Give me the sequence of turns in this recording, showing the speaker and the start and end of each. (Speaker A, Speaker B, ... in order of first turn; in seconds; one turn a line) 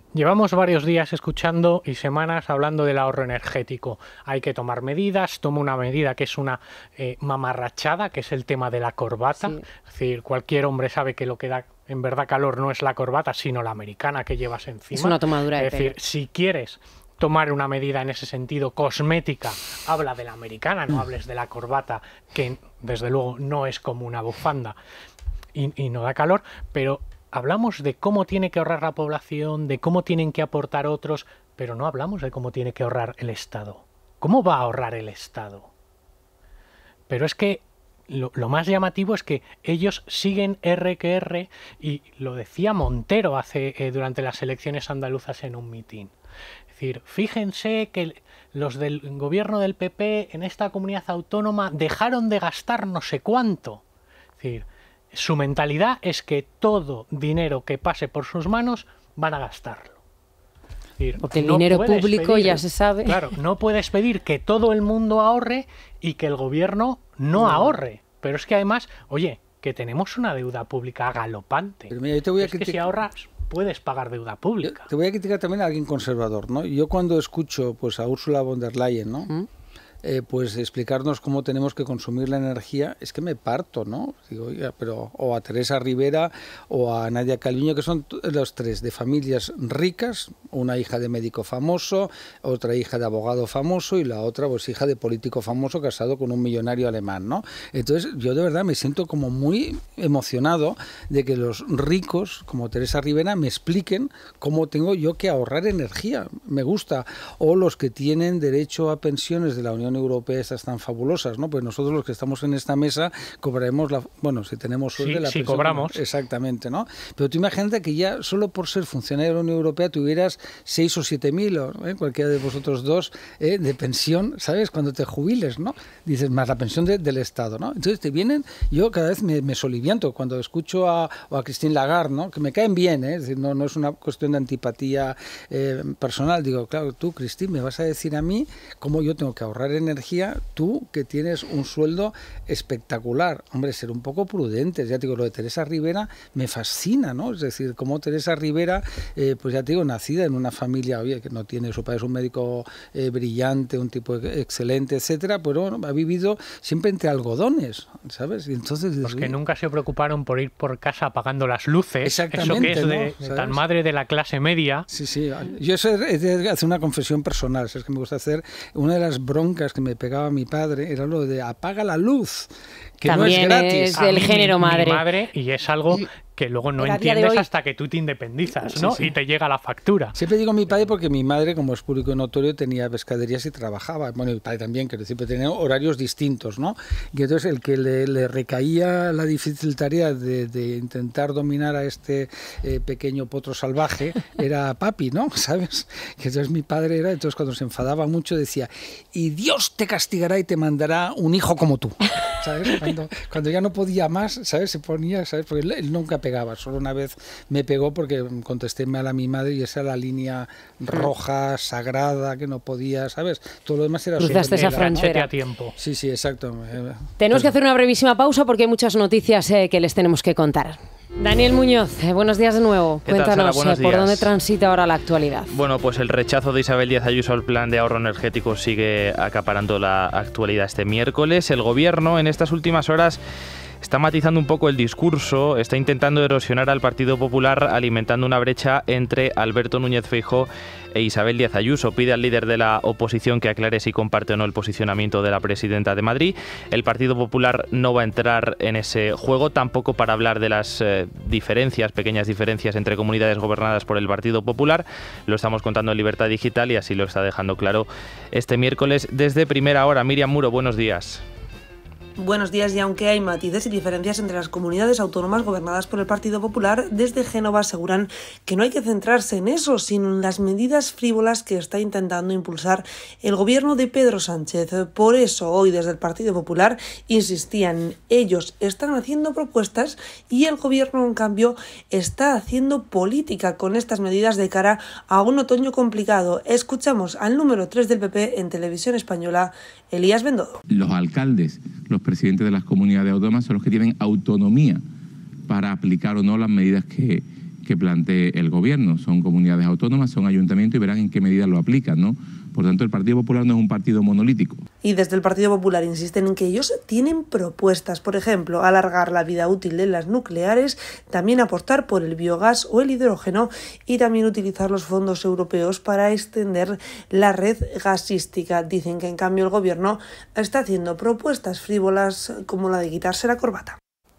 Speaker A: 0.1-24.7
Speaker B: 9.4-9.6
Speaker B: 14.9-15.9
Speaker A: 25.5-35.7
Speaker A: 37.1-46.1
Speaker A: 46.7-53.8
Speaker A: 54.4-60.0
Speaker A: 61.0-74.8
Speaker B: 61.2-63.3
Speaker B: 67.4-67.7
Speaker C: 71.9-72.8
Speaker C: 74.6-79.3
Speaker C: 80.0-159.3
Speaker A: 115.0-116.0
Speaker A: 159.0-164.8
Speaker C: 162.0-163.6
Speaker C: 164.9-174.0
Speaker B: 173.1-175.0
Speaker A: 173.9-180.1
Speaker B: 176.8-177.4
Speaker B: 178.6-179.1
Speaker C: 180.1-215.1
Speaker B: 214.2-215.3
Speaker A: 214.2-215.7
Speaker C: 215.8-217.5
Speaker B: 217.2-225.5
Speaker D: 223.1-224.3
Speaker D: 225.5-233.2
Speaker D: 233.8-261.2
Speaker E: 262.2-290.6
Speaker F: 290.7-294.8
Speaker F: 295.5-304.6
Speaker E: 304.8-323.8